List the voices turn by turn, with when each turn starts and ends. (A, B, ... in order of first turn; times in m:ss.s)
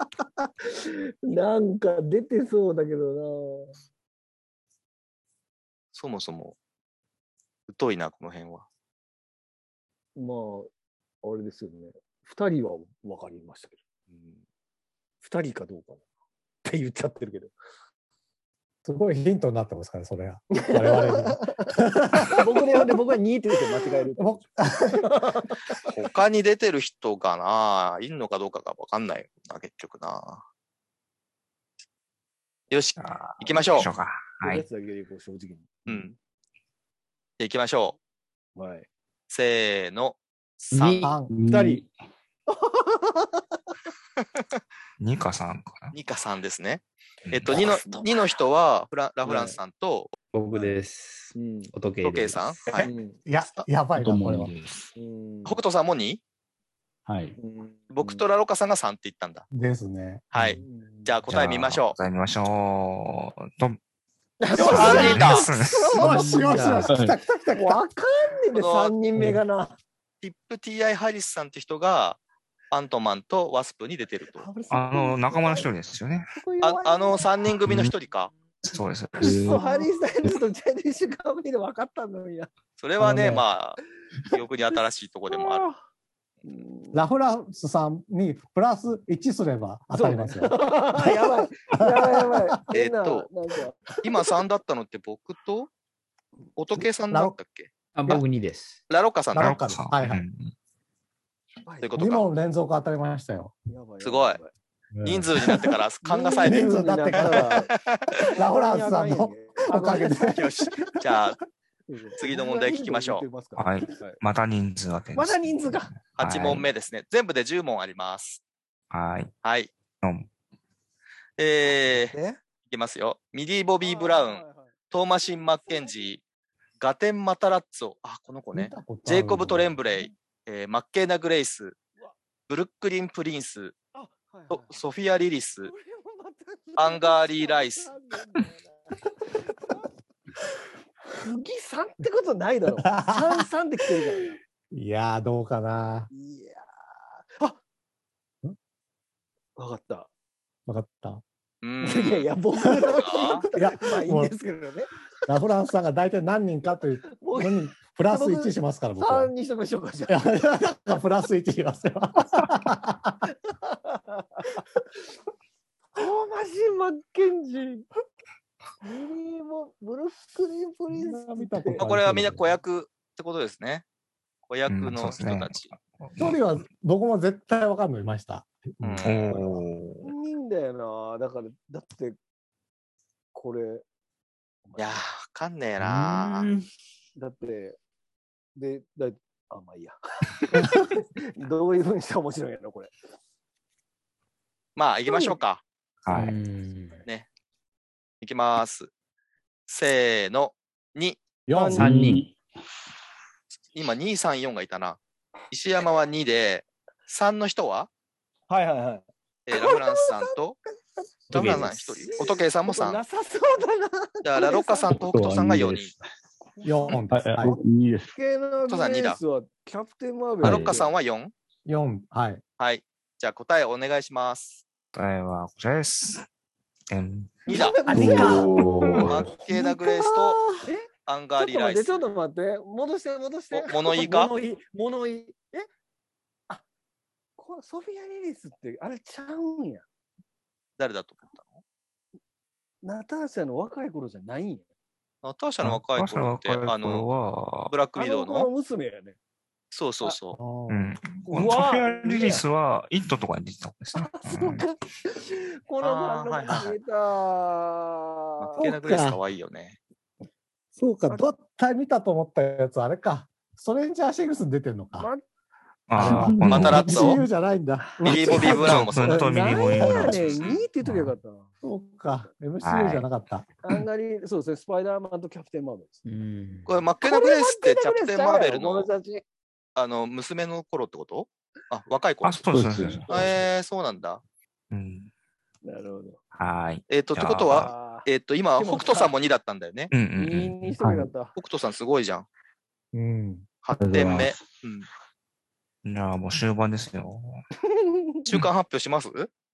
0:00.7-0:03.7 A
0:05.9-0:06.6 B
0:07.7-0:08.6 B
0:10.2-0:10.7 A
0:11.2-0:13.8 A
0:14.1-0:14.4 B
0:15.2-0:16.0 A
0:16.6-0:17.5 A
0:18.8-0:22.4 C
0:20.5-0:25.6 A
0:24.2-0:25.1 C
0:25.8-0:30.4 B
0:32.7-0:33.9 B
0:33.0-0:34.6 D
0:34.4-0:36.1 A
0:35.8-0:36.1 B
0:37.4-0:38.0 B
0:38.6-0:38.9 A
0:39.3-0:41.1 B
0:40.7-0:41.2 E
0:41.0-0:41.3 C
0:41.2-0:41.9 F
0:41.5-0:41.8 A
0:42.5-0:43.4 A
0:45.0-0:45.9 D
0:45.9-0:50.1 B
0:47.3-0:47.5 D
0:47.5-0:48.3 A
0:49.2-0:49.6 A
0:50.3-0:52.6 E
0:51.3-0:51.7 A
0:52.0-0:52.9 B
0:52.8-0:53.2 A
0:53.2-0:54.5 C
0:54.0-0:54.8 F
0:54.9-0:55.6 A
0:55.4-0:56.2 B
0:57.0-0:57.4 F
0:57.4-0:58.2 A
0:57.9-0:59.4 B
0:59.5-1:00.2 C
1:00.3-1:02.0 B
1:00.6-1:01.2 A
1:01.3-1:03.8 D
1:04.4-1:06.8 A
1:04.5-1:06.2 D
1:04.5-1:05.5 B
1:05.9-1:07.8 C
1:06.4-1:06.9 E
1:06.9-1:07.2 F
1:07.5-1:09.8 A
1:08.5-1:08.9 B
1:10.2-1:12.2 B
1:12.7-1:14.5 B
1:14.3-1:15.7 A
1:14.7-1:16.3 D
1:16.3-1:17.3 A
1:16.6-1:18.3 B
1:17.6-1:17.9 F
1:18.6-1:19.5 D
1:19.2-1:20.4 F
1:19.2-1:22.5 A
1:22.8-1:23.8 B
1:23.0-1:23.4 C
1:24.3-1:25.7 B
1:25.3-1:25.8 A
1:26.4-1:27.0 A
1:26.9-1:32.4 C
1:29.9-1:33.8 A
1:32.7-1:33.3 B
1:34.0-1:35.7 B
1:36.6-1:37.7 B
1:37.9-1:38.8 E
1:38.9-1:39.6 B
1:39.3-1:40.2 C
1:39.4-1:40.5 D
1:41.6-1:42.0 A
1:41.8-1:42.3 B
1:42.0-1:43.5 C
1:43.7-1:44.5 A
1:44.0-1:44.4 B
1:45.0-1:45.8 C
1:45.0-1:48.1 B
1:46.0-1:47.7 A
1:46.4-1:47.6 C
1:48.2-1:51.2 C
1:48.3-1:50.4 A
1:50.3-1:51.4 B
1:51.9-1:54.2 A
1:52.2-1:53.2 B
1:53.6-1:56.7 D
1:55.1-1:55.9 A
1:56.2-1:58.4 B
1:58.9-1:59.3 D
1:59.4-1:59.7 B
2:00.0-2:00.3 D
2:01.4-2:02.1 B
2:01.9-2:02.4 A
2:02.7-2:06.2 B
2:03.8-2:04.7 A
2:05.5-2:06.1 A
2:06.8-2:11.8 B
2:08.5-2:09.9 C
2:12.5-2:13.7 B
2:13.9-2:14.8 A
2:14.5-2:15.7 B
2:15.6-2:19.9 A
2:16.8-2:17.9 B
2:21.1-2:24.4 A
2:22.8-2:23.4 C
2:24.7-2:26.1 C
2:26.1-2:26.7 A
2:29.6-2:30.1 A
2:30.7-2:31.2 C
2:31.6-2:32.3 B
2:31.8-2:34.9 A
2:32.8-2:34.3 C
2:33.0-2:33.4 B
2:35.3-2:39.3 C
2:37.1-2:40.4 A
2:40.1-2:43.2 C
2:43.5-2:44.6 A
2:46.0-2:47.8 A
2:48.8-2:51.8 A
2:50.9-2:52.4 C
2:51.8-2:53.8 B
2:54.5-2:55.7 B
2:54.7-2:56.4 D
2:56.2-2:59.0 C
2:58.8-3:00.1 D
2:58.8-2:59.5 B
3:00.0-3:02.2 A
3:03.3-3:03.8 A
3:04.6-3:05.0 A
3:04.8-3:06.5 B
3:05.8-3:06.7 E
3:07.2-3:07.8 A
3:08.6-3:12.9 A
3:14.8-3:15.6 B
3:15.1-3:15.4 A
3:16.0-3:16.4 D
3:16.1-3:17.0 E
3:18.2-3:18.9 B
3:19.7-3:21.2 B
3:21.5-3:21.9 C
3:21.7-3:22.4 F
3:21.8-3:22.3 E
3:23.7-3:27.9 B
3:28.5-3:30.4 A
3:29.5-3:30.6 B
3:31.0-3:34.9 A
3:31.3-3:32.1 E
3:31.3-3:33.0 B
3:34.2-3:35.9 B
3:34.9-3:36.0 F
3:36.4-3:37.6 A
3:36.6-3:37.6 C
3:37.1-3:38.1 F
3:38.1-3:40.9 A
3:38.7-3:39.2 B
3:40.4-3:40.8 F
3:40.4-3:41.3 B
3:41.6-3:42.4 C
3:42.6-3:44.6 B
3:44.9-3:46.2 D
3:46.9-3:47.5 D
3:47.5-3:48.7 A
3:47.5-3:47.8 B
3:47.8-3:50.6 C
3:47.9-3:49.3 F
3:49.0-3:50.4 B
3:50.6-3:55.7 A
3:51.0-3:52.0 B
3:53.5-3:54.3 B
3:57.4-3:59.8 A
4:00.8-4:01.6 B
4:02.8-4:04.6 A
4:05.2-4:07.0 B
4:05.6-4:07.7 D
4:07.7-4:08.5 B
4:07.9-4:09.2 A
4:09.7-4:10.4 B
4:10.4-4:11.0 C
4:10.7-4:14.6 D
4:11.2-4:12.4 A
4:13.9-4:18.7 A
4:15.8-4:16.7 B
4:18.4-4:19.8 B
4:18.6-4:19.2 C
4:20.8-4:25.1 C
4:25.0-4:25.2 A
4:25.9-4:27.1 D
4:26.0-4:30.2 C
4:26.0-4:26.5 E
4:26.1-4:26.7 F
4:26.5-4:27.2 B
4:28.0-4:31.5 A
4:28.0-4:29.2 B
4:28.3-4:31.1 D
4:30.2-4:30.6 B
4:31.6-4:33.5 C
4:32.6-4:33.1 D
4:33.6-4:36.0 A
4:36.0-4:36.8 E
4:36.6-4:38.9 B
4:37.0-4:39.2 A
4:39.8-4:42.4 B
4:42.2-4:43.4 D
4:42.5-4:43.1 F
4:43.1-4:43.3 A
4:43.1-4:44.2 B
4:44.7-4:45.1 D
4:45.6-4:46.2 A
4:46.3-4:47.7 D
4:46.9-4:49.9 B
4:47.5-4:49.1 A
4:49.9-4:50.7 D
4:50.2-4:51.3 A
4:50.8-4:51.0 F
4:51.3-4:52.2 B
4:52.9-4:53.5 C
4:53.6-4:54.9 B
4:53.8-4:54.6 F
4:55.8-4:57.4 D
4:57.7-4:58.2 A
4:58.2-4:59.3 B